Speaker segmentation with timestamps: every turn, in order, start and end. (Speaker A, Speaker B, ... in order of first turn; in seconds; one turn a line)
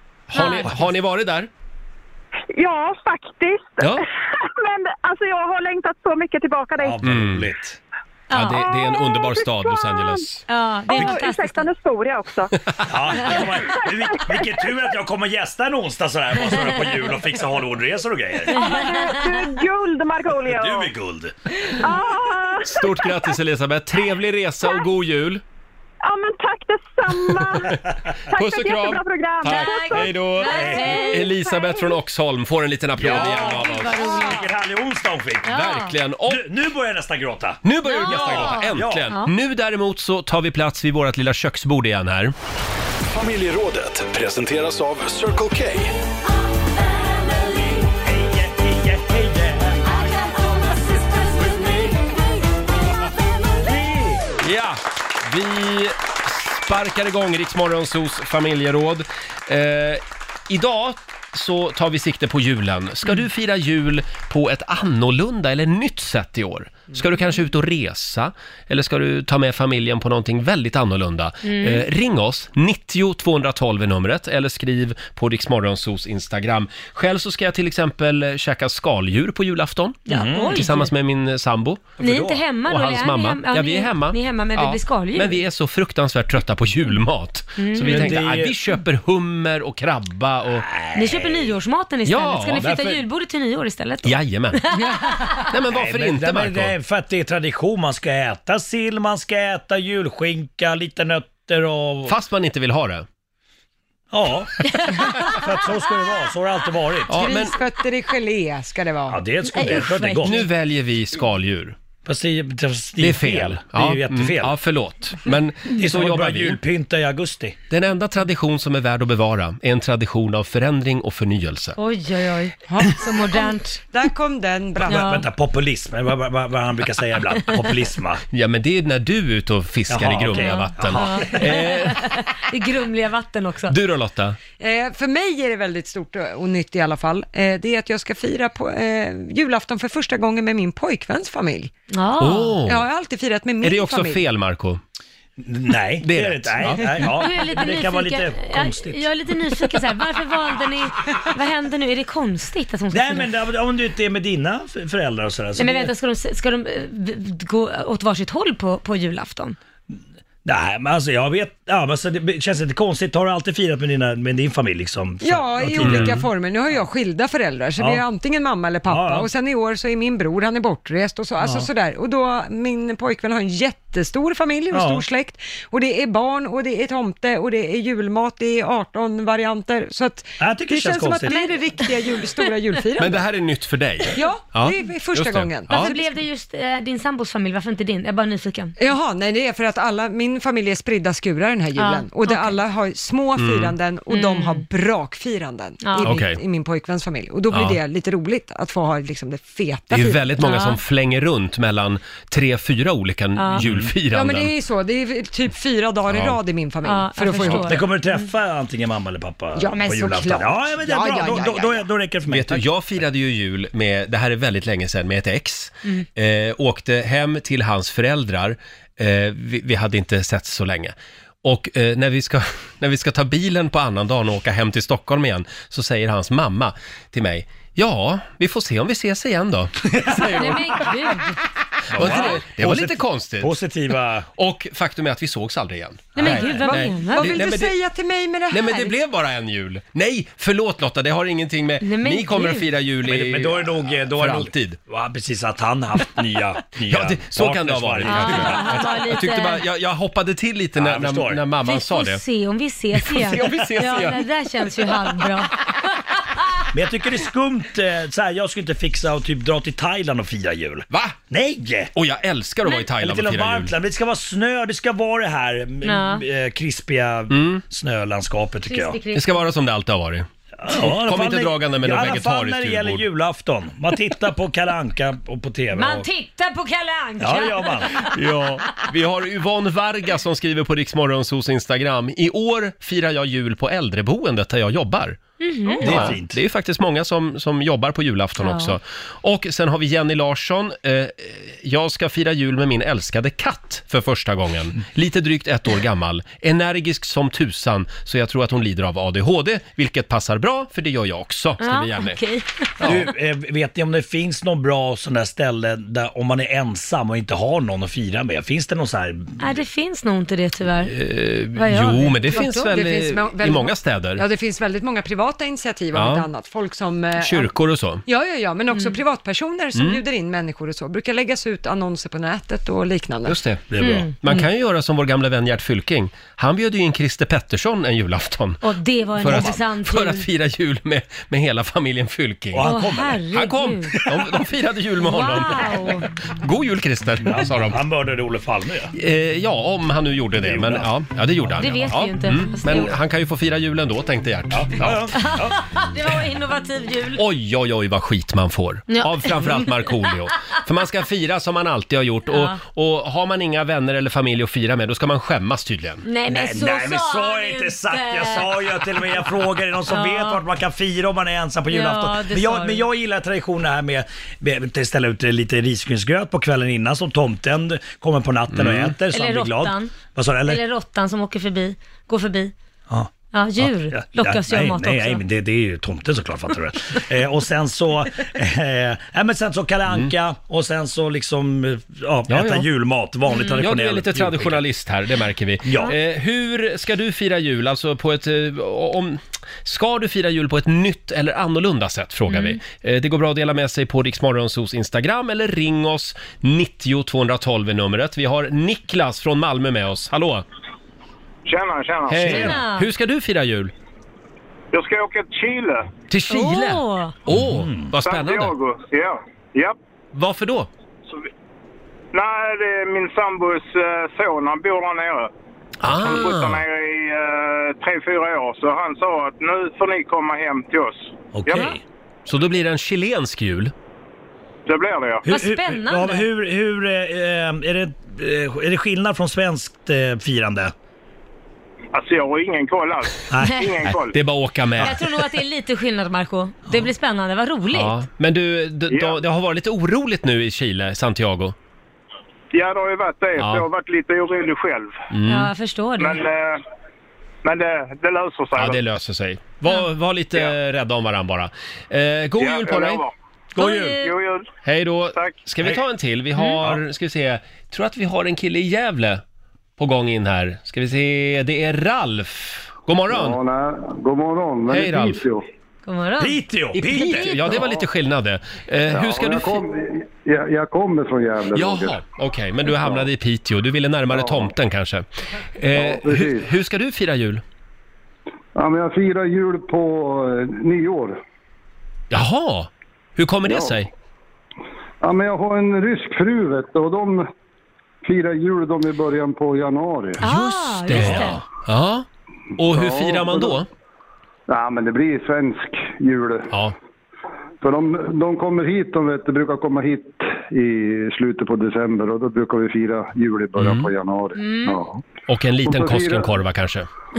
Speaker A: 0.3-1.5
Speaker B: 0.3-0.7
Speaker C: 2.6-3.8
Speaker C: 4.6-6.9
Speaker D: 6.8-7.8
Speaker A: 7.0-7.5
Speaker B: 8.3-8.6
Speaker A: 8.3-10.4
Speaker B: 10.5-11.7
Speaker C: 10.9-12.5
Speaker D: 12.9-18.6
Speaker C: 18.5-20.9
Speaker B: 18.5-19.5
Speaker D: 20.4-21.3
Speaker C: 21.9-22.7
Speaker A: 22.6-25.4
Speaker C: 26.0-27.8
Speaker A: 28.3-34.0
Speaker C: 28.3-30.0
Speaker B: 29.5-31.5
Speaker D: 30.4-31.2
Speaker D: 33.0-35.5
Speaker B: 33.0-34.5
Speaker B: 35.5-35.9
Speaker A: 35.5-36.5
Speaker D: 36.3-39.1
Speaker A: 37.6-42.3
Speaker B: 37.9-39.3
Speaker E: 43.1-45.9
Speaker D: 47.8-52.1
Speaker D: 53.6-54.3
Speaker A: 54.4-81.9
Speaker B: 71.4-71.8
Speaker D: 80.1-80.6
Speaker B: 80.2-80.9
Speaker D: 82.0-82.4
Speaker B: 82.0-85.4
Speaker A: 82.7-90.6
Speaker B: 87.6-88.2
Speaker D: 87.8-88.6
Speaker D: 90.6-91.5
Speaker B: 90.9-95.4
Speaker A: 92.0-92.7
Speaker D: 92.6-93.0
Speaker A: 94.0-94.6
Speaker F: 94.8-95.3
Speaker A: 95.5-96.7
Speaker D: 95.7-102.1
Speaker A: 102.0-103.0
Speaker D: 104.1-107.2
Speaker B: 104.9-105.4
Speaker A: 107.1-107.6
Speaker F: 107.1-109.2
Speaker D: 109.1-110.5
Speaker B: 109.4-110.5
Speaker A: 110.2-111.7
Speaker D: 112.0-114.5
Speaker A: 113.0-116.6
Speaker D: 115.7-117.6
Speaker A: 117.7-121.8
Speaker B: 121.8-123.8
Speaker F: 122.7-125.2
Speaker D: 124.8-128.2
Speaker B: 124.9-125.2
Speaker A: 128.3-132.0
Speaker D: 129.9-131.5
Speaker B: 130.3-133.7
Speaker A: 133.7-134.4
Speaker F: 134.6-141.7
Speaker B: 141.9-142.6
Speaker A: 142.2-142.8
Speaker F: 142.7-144.2
Speaker A: 143.6-144.8
Speaker D: 145.4-149.0
Speaker A: 146.0-147.1
Speaker B: 147.0-153.3
Speaker D: 152.9-155.9
Speaker B: 155.6-159.6
Speaker D: 160.4-166.3
Speaker F: 165.2-183.2
Speaker A: 165.8-166.2
Speaker D: 168.9-169.3
Speaker D: 171.4-171.7
Speaker D: 174.7-175.0
Speaker D: 180.4-181.4
Speaker B: 181.2-182.4
Speaker A: 183.0-185.9
Speaker F: 184.1-186.2
Speaker B: 185.7-188.7
Speaker F: 188.8-200.3
Speaker B: 191.8-192.6
Speaker A: 193.4-193.8
Speaker B: 194.1-194.6
Speaker B: 195.8-196.1
Speaker A: 196.0-196.4
Speaker A: 197.5-197.8
Speaker A: 199.9-204.5
Speaker B: 200.4-200.8
Speaker B: 203.4-203.6
Speaker D: 203.6-203.9
Speaker F: 204.1-207.9
Speaker A: 206.1-206.4
Speaker B: 206.8-208.2
Speaker D: 207.4-212.6
Speaker F: 209.6-211.9
Speaker A: 212.3-230.5
Speaker D: 229.9-230.6
Speaker B: 230.1-231.4
Speaker D: 231.9-234.3
Speaker A: 231.9-233.5
Speaker B: 232.1-232.3
Speaker A: 234.4-237.8
Speaker B: 236.2-237.4
Speaker F: 236.2-238.9
Speaker A: 238.5-244.8
Speaker B: 241.8-242.7
Speaker D: 243.1-248.8
Speaker A: 246.9-252.2
Speaker B: 248.0-249.6
Speaker D: 250.8-251.4
Speaker B: 251.6-256.2
Speaker A: 252.9-254.2
Speaker D: 256.7-261.9
Speaker A: 260.9-261.2
Speaker A: 261.9-263.7
Speaker D: 262.9-269.0
Speaker B: 265.8-266.2
Speaker A: 267.3-267.6
Speaker B: 268.6-269.4
Speaker A: 269.1-273.1
Speaker D: 270.6-276.1
Speaker B: 275.7-278.1
Speaker D: 277.2-278.1
Speaker A: 278.1-285.2
Speaker B: 285.4-286.1
Speaker D: 285.8-286.4
Speaker A: 285.8-302.2
Speaker B: 288.4-288.7
Speaker B: 301.6-302.7
Speaker A: 302.8-303.0
Speaker D: 302.8-309.4
Speaker B: 309.4-310.9
Speaker A: 310.9-314.2
Speaker B: 311.6-312.7
Speaker F: 312.3-317.5
Speaker A: 315.9-316.3
Speaker A: 317.2-318.0
Speaker F: 318.1-323.4
Speaker B: 318.7-319.0
Speaker A: 319.7-320.0
Speaker A: 323.2-328.6
Speaker D: 323.7-324.1
Speaker B: 323.8-324.4
Speaker B: 328.6-330.2
Speaker A: 329.2-332.7
Speaker D: 332.5-333.2
Speaker B: 332.6-333.9
Speaker A: 333.3-335.7
Speaker B: 335.0-336.1
Speaker A: 336.4-337.8
Speaker D: 337.2-338.9
Speaker A: 338.9-345.1
Speaker D: 340.4-340.9
Speaker B: 341.6-342.9
Speaker D: 344.5-345.6
Speaker B: 345.1-347.2
Speaker A: 347.1-356.1
Speaker B: 348.9-350.1
Speaker B: 352.3-352.6
Speaker B: 356.0-359.2
Speaker D: 356.3-370.6
Speaker B: 359.9-360.4
Speaker B: 361.7-362.8
Speaker A: 368.5-368.9
Speaker B: 369.1-369.9
Speaker B: 370.4-372.5
Speaker D: 372.9-384.6
Speaker B: 373.3-375.2
Speaker A: 382.3-382.7
Speaker B: 383.3-383.6
Speaker A: 383.6-400.4
Speaker D: 385.6-385.9
Speaker B: 392.3-392.6
Speaker G: 401.4-402.5
Speaker A: 402.1-403.7
Speaker B: 402.2-402.9
Speaker G: 404.7-405.9
Speaker A: 406.1-408.5
Speaker B: 406.3-407.1
Speaker D: 407.3-407.9
Speaker G: 408.0-409.8
Speaker A: 410.1-410.7
Speaker G: 412.1-415.3
Speaker A: 415.8-416.6
Speaker G: 415.9-421.7
Speaker D: 421.3-421.8
Speaker A: 422.2-423.7
Speaker G: 424.6-425.3
Speaker D: 425.2-430.7
Speaker B: 425.3-426.3
Speaker G: 431.9-434.1
Speaker D: 433.3-433.7
Speaker A: 433.8-435.0
Speaker B: 434.8-438.0
Speaker A: 437.7-441.5
Speaker G: 438.9-439.2
Speaker G: 442.5-445.1
Speaker A: 443.4-443.7
Speaker A: 445.1-445.5
Speaker B: 445.2-446.2
Speaker G: 446.0-446.6
Speaker G: 447.4-448.8
Speaker A: 448.6-453.0
Speaker G: 452.4-453.1
Speaker B: 453.6-454.1
Speaker D: 453.6-453.9
Speaker G: 454.0-454.5
Speaker A: 454.6-459.2
Speaker G: 455.1-455.4
Speaker A: 459.8-463.4
Speaker H: 463.1-465.4
Speaker A: 464.7-465.2
Speaker B: 465.9-466.4
Speaker D: 466.2-467.6
Speaker A: 466.7-469.6
Speaker H: 468.9-472.0
Speaker A: 471.5-475.1
Speaker H: 472.8-473.1
Speaker H: 474.1-474.5
Speaker A: 475.6-477.4
Speaker H: 475.7-476.5
Speaker H: 478.6-481.2
Speaker A: 482.1-483.9
Speaker H: 483.4-483.8
Speaker H: 485.0-487.2
Speaker H: 488.0-490.2
Speaker B: 490.2-491.4
Speaker A: 490.2-493.7
Speaker D: 491.0-491.3
Speaker H: 492.6-493.6
Speaker H: 494.5-496.5
Speaker H: 497.6-505.0
Speaker A: 503.6-503.9
Speaker B: 504.4-504.8
Speaker A: 505.3-506.9
Speaker H: 505.6-506.4